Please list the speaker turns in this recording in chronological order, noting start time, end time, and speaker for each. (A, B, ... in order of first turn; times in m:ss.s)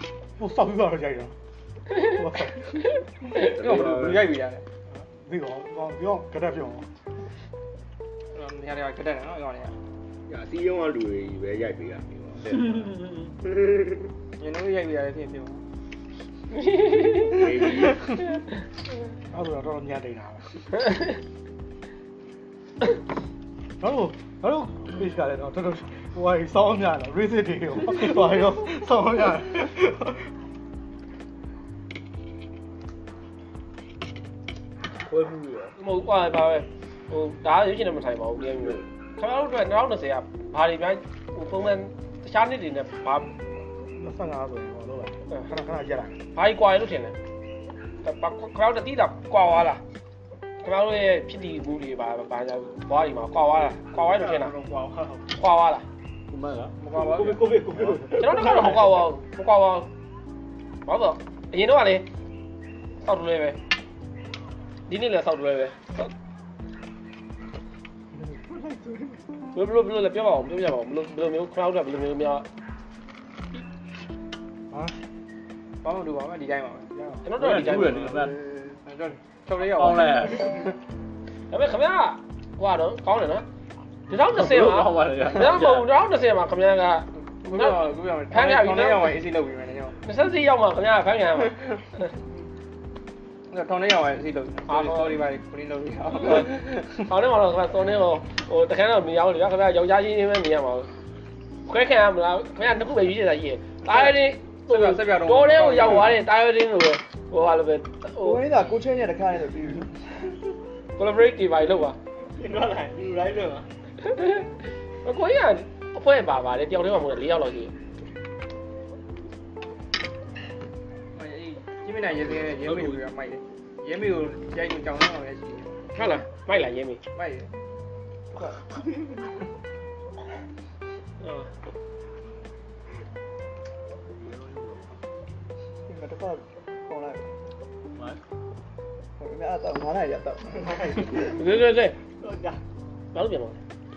0:00.4-0:01.3 A
0:01.9-0:02.8 A
0:03.3-0:04.4 B
0:03.4-0:04.6 C
0:04.9-0:06.9 A
0:08.3-0:09.7 C
0:10.3-0:13.1 B
0:14.4-0:15.6 C
0:16.6-0:17.4 D
0:17.3-0:18.1 B
0:19.3-0:20.5 A
0:23.8-0:30.2 A
0:35.0-0:35.7 E
0:35.8-0:43.3 D
0:43.9-0:46.2 A
0:46.3-0:47.1 D
0:48.0-0:49.8 D
0:50.6-0:54.5 D
0:53.9-0:55.3 C
0:55.3-0:55.8 D
0:56.3-0:57.9 E
0:56.8-0:58.9 C
0:58.2-0:59.9 D
1:00.8-1:02.1 D
1:03.0-1:03.6 D
1:04.9-1:06.1 D
1:08.5-1:09.2 C
1:09.5-1:12.4 D
1:15.8-1:16.9 C
1:17.2-1:18.1 D
1:17.4-1:18.4 E
1:18.8-1:20.4 C
1:19.6-1:20.7 E
1:21.5-1:23.4 D
1:24.1-1:29.2 D
1:24.1-1:25.9 E
1:27.4-1:30.0 C
1:30.0-1:32.1 D
1:33.5-1:37.0 C
1:34.7-1:35.2 D
1:36.2-1:40.9 D
1:41.6-1:48.4 D
1:43.9-1:44.1 C
1:44.7-1:46.1 C
1:48.2-1:50.0 F
1:51.0-1:52.0 D
1:52.3-1:53.7 C
1:54.0-1:54.5 D
1:55.0-1:57.7 D
2:01.1-2:05.8 C
2:02.5-2:03.0 E
2:06.0-2:07.0 D
2:07.1-2:07.5 C
2:08.3-2:08.7 F
2:11.2-2:11.5 D
2:14.2-2:14.8 E
2:15.8-2:17.3 F
2:19.2-2:20.9 F
2:20.5-2:21.4 C
2:21.3-2:22.0 D
2:22.2-2:22.6 C
2:23.1-2:23.6 D